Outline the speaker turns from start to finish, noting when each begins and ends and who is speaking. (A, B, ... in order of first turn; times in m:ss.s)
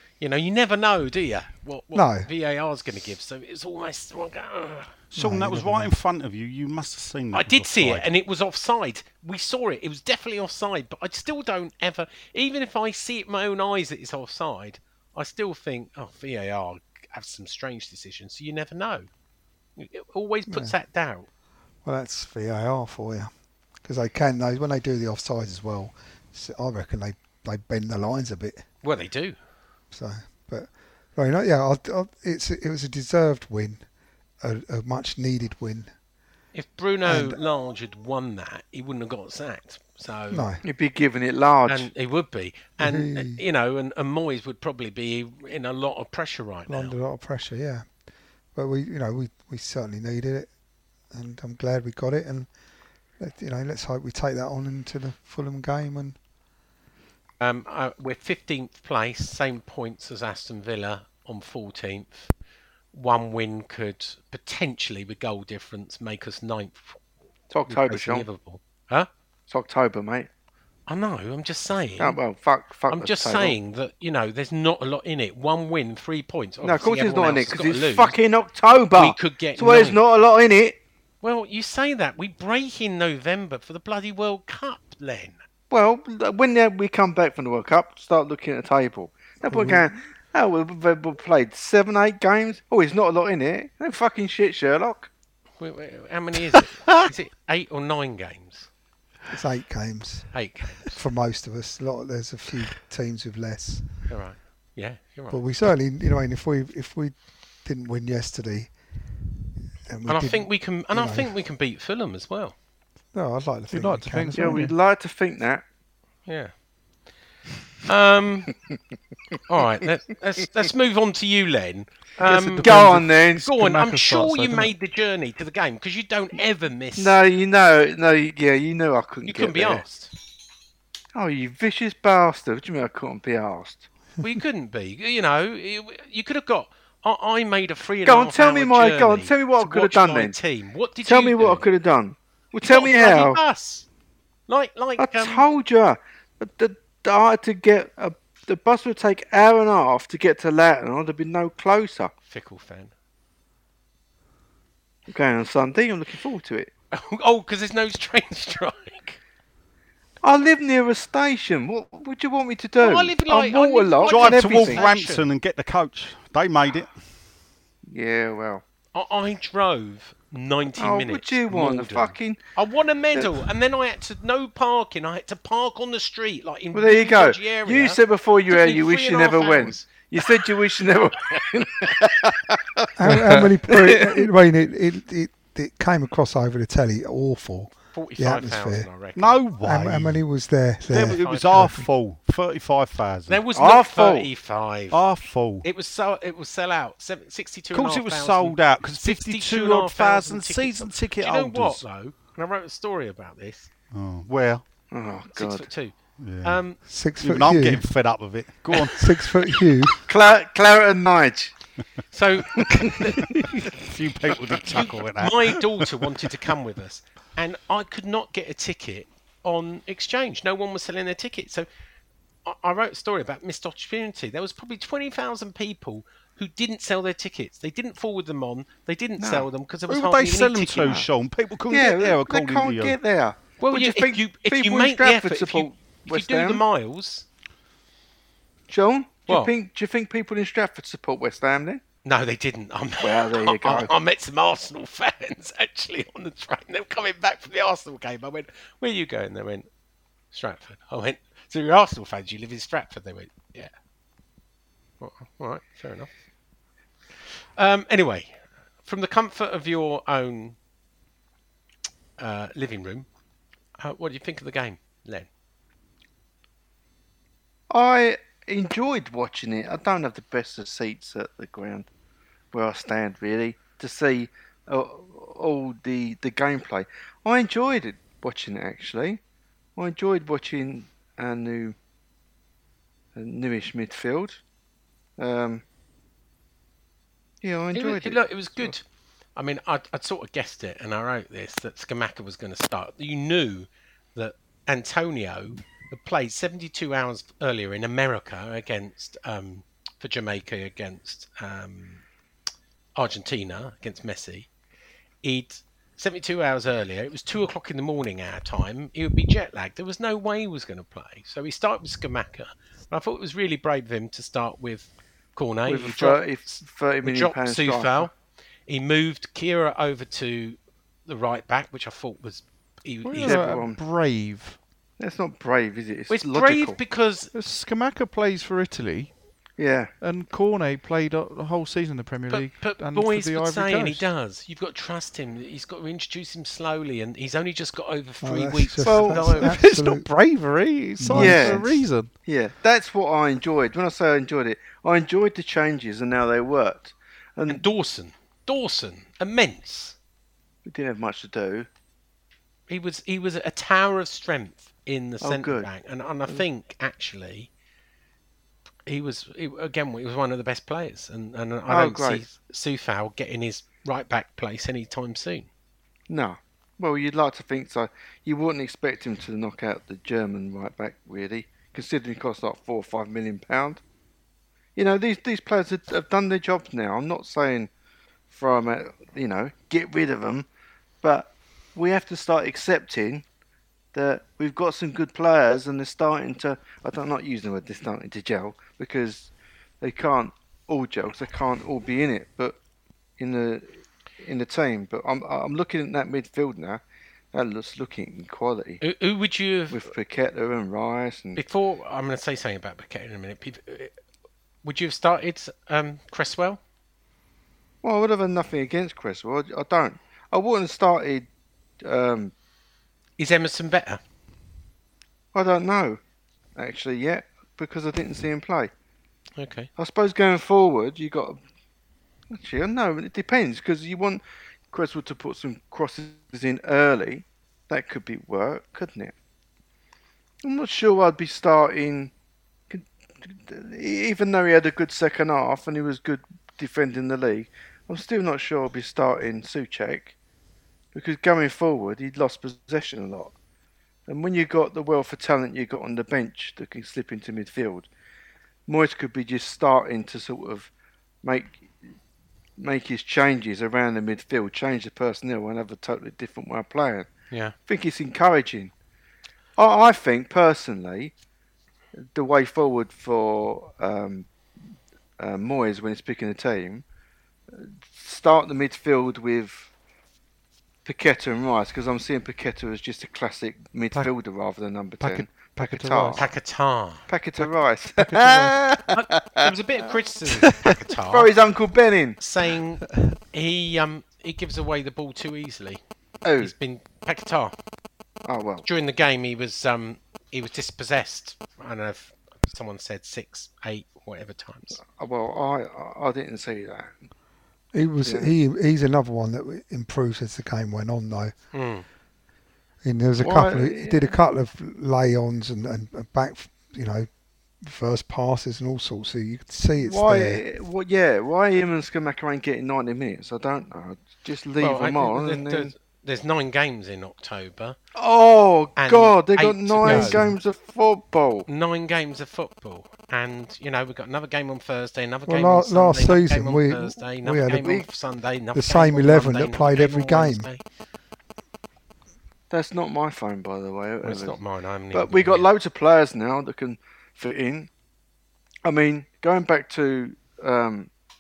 0:00.2-0:04.9 A
0:01.9-0:02.3 B
0:05.1-0:08.1 C
0:05.2-0:05.9 B
0:07.3-0:19.1 A
0:19.8-0:21.3 A
0:20.5-0:20.8 B
0:21.8-0:23.3 B
0:23.8-0:28.6 B
0:28.8-0:29.4 A
0:29.9-0:33.8 B
0:34.4-0:35.9 B
0:36.5-0:40.5 A
0:37.0-0:37.4 B
0:40.3-0:40.6 B
0:40.6-0:41.9 D
0:41.6-0:46.9 A
0:42.8-0:43.4 B
0:46.7-0:47.9 B
0:48.5-0:50.5 B
0:51.1-0:52.5 B
0:53.2-0:56.2 B
0:57.4-1:02.3 A
1:02.9-1:07.0 A
1:07.5-1:08.2 D
1:07.7-1:09.1 A
1:09.5-1:10.3 D
1:10.9-1:12.2 A
1:12.0-1:13.6 D
1:12.9-1:18.2 A
1:16.6-1:20.8 D
1:18.9-1:20.0 A
1:21.2-1:25.4 A
1:25.7-1:35.1 D
1:29.5-1:29.8 B
1:35.6-1:38.7 A
1:39.3-1:43.9 B
1:40.3-1:40.9 A
1:44.1-1:45.4 A
1:45.3-1:48.7 B
1:49.9-1:51.3 B
1:50.1-1:52.5 A
1:53.1-1:54.7 B
1:53.7-1:54.7 E
1:54.4-1:55.6 D
1:56.3-1:56.5 A
1:57.9-1:58.5 A
1:59.5-2:07.2 A
2:02.2-2:04.7 E
2:02.6-2:03.5 D
2:07.0-2:09.8 D
2:09.2-2:10.1 A
2:11.1-2:13.8 D
2:14.2-2:21.6 A
2:18.0-2:20.4 D
2:21.0-2:23.4 D
2:22.6-2:23.9 A
2:24.5-2:25.5 A
2:25.0-2:32.1 D
2:32.3-2:32.9 A
2:35.1-2:36.7 D
2:36.9-2:39.2 A
2:40.2-2:44.8 D
2:42.8-2:45.2 A
2:44.1-2:46.9 C
2:47.9-2:48.6 D
2:48.9-3:00.6 A
2:50.8-2:52.4 D
2:56.7-3:04.2 D
3:03.0-3:08.9 B
3:07.9-3:09.4 A
3:09.2-3:10.2 C
3:09.6-3:11.8 B
3:10.9-3:13.4 C
3:10.9-3:11.8 A
3:13.3-3:15.0 A
3:13.5-3:14.3 D
3:14.9-3:15.7 C
3:15.6-3:23.7 A
3:17.7-3:21.8 C
3:23.9-3:24.6 C
3:24.9-3:25.7 D
3:25.3-3:26.8 A
3:26.2-3:29.1 C
3:26.9-3:27.8 B
3:29.0-3:30.0 B
3:30.1-3:31.5 D
3:32.1-3:33.2 A
3:32.6-3:33.3 D
3:33.6-3:36.0 C
3:34.5-3:41.7 A
3:42.4-3:51.0 A
3:49.2-3:49.5 D
3:49.9-3:53.0 C
3:51.7-3:56.6 D
3:53.6-3:57.2 A
3:58.7-4:01.8 D
4:02.0-4:09.7 A
4:03.0-4:03.9 D
4:10.3-4:13.7 A
4:15.0-4:16.1 A
4:17.6-4:20.6 A
4:22.2-4:23.1 A
4:23.8-4:25.3 A
4:27.7-4:31.9 D
4:32.5-4:39.2 D
4:39.8-4:41.8 D
4:43.2-4:44.4 D
4:45.2-4:45.6 D
4:47.4-4:48.8 D
4:47.7-4:48.8 A
4:49.4-5:02.0 A
5:03.0-5:04.5 A
5:05.2-5:18.1 A
5:15.7-5:18.1 D
5:18.7-5:23.6 A
5:23.0-5:24.6 E
5:23.2-5:23.8 D
5:25.0-5:26.8 D
5:26.1-5:27.3 A
5:27.3-5:29.1 E
5:29.6-5:29.9 D
5:30.0-5:34.1 E
5:32.3-5:39.5 A
5:38.2-5:40.1 B
5:38.8-5:42.1 E
5:41.0-5:41.7 B
5:41.1-5:47.6 D
5:47.5-5:50.0 A
5:50.6-5:51.7 D
5:52.7-5:57.5 A
5:55.2-5:55.7 D
5:58.9-6:05.5 A
6:01.7-6:02.3 D
6:06.1-6:13.8 D
6:14.8-6:17.7 D
6:18.3-6:20.5 D
6:21.0-6:23.2 D
6:23.9-6:32.6 D
6:33.2-6:38.8 D
6:38.8-6:39.8 A
6:39.7-6:41.4 D
6:41.4-6:43.9 A
6:44.6-6:46.6 A
6:47.8-6:51.3 D
6:51.8-6:52.3 D
6:53.2-6:54.0 A
6:55.3-6:56.0 D
6:56.6-6:58.7 D
6:59.4-6:59.7 A
6:59.8-7:01.4 D
7:02.3-7:09.1 D
7:10.4-7:12.1 D
7:12.7-7:20.2 D
7:20.9-7:23.3 D
7:24.1-7:27.9 D
7:28.7-7:30.7 D
7:31.2-7:31.8 D
7:32.6-7:37.1 D
7:37.7-7:38.7 D
7:39.6-7:41.1 D
7:42.1-7:44.3 D
7:45.2-7:46.8 D
7:47.5-7:49.7 D
7:50.8-7:56.3 D
7:55.0-7:56.2 E
7:56.2-7:57.0 A
7:57.1-7:59.8 D
7:57.4-7:58.6 E
7:58.9-8:01.3 A
8:01.1-8:02.2 D
8:02.2-8:05.8 A
8:06.2-8:06.5 D
8:06.4-8:07.5 A
8:08.2-8:08.6 D
8:08.6-8:14.8 A
8:14.8-8:17.0 D
8:17.7-8:21.3 B
8:18.0-8:18.3 D
8:21.5-8:21.8 A
8:22.8-8:27.1 B
8:23.2-8:24.2 D
8:27.6-8:30.4 B
8:29.8-8:35.7 D
8:34.6-8:37.8 A
8:38.0-8:41.5 D
8:38.8-8:40.2 A
8:40.0-8:40.3 B
8:41.5-8:50.6 A
8:45.2-8:47.8 B
8:48.5-8:50.5 B
8:52.5-8:54.4 D
8:54.0-8:55.5 A
8:54.9-8:57.7 D
8:58.6-9:00.9 D